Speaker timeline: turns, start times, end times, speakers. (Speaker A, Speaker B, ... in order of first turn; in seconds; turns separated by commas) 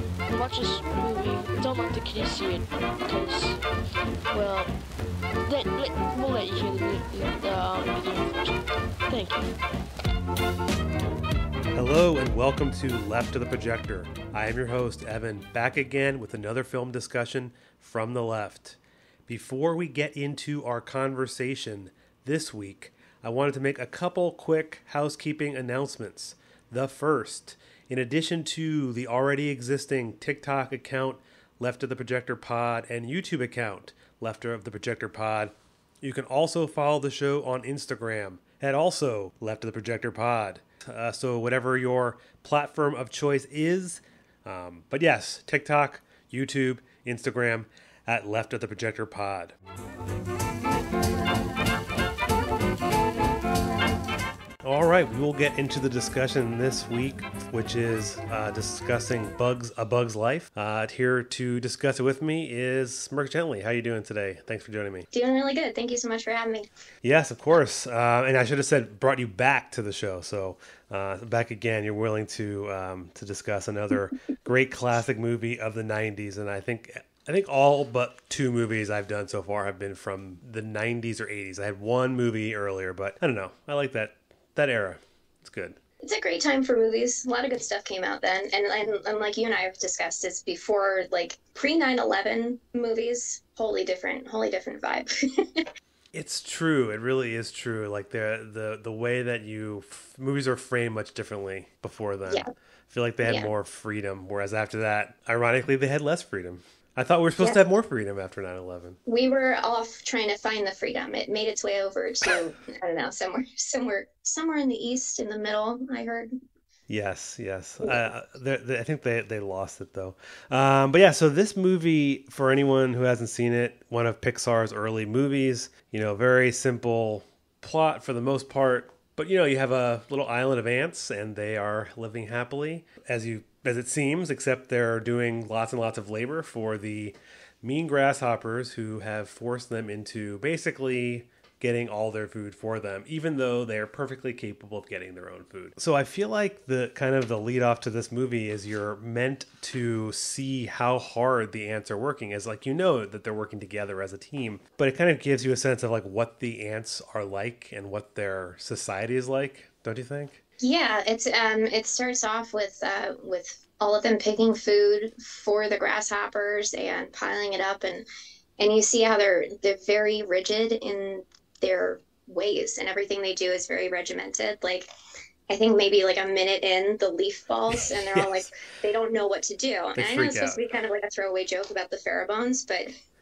Speaker A: 0.3-3.6, Speaker A: 4.3-4.7, Speaker A: 5.4-9.6, Speaker B: 11.7-49.5, Speaker B: 54.6-65.1, Speaker C: 65.1-66.7, Speaker B: 67.0-85.8, Speaker C: 86.0-95.7, Speaker B: 96.1-109.0, Speaker C: 103.2-103.5, Speaker C: 109.0-116.3, Speaker B: 116.9-160.4, Speaker C: 160.6-168.1, Speaker C: 168.6-174.9, Speaker C: 175.5-182.9, Speaker B: 177.7-178.5, Speaker B: 179.9-180.7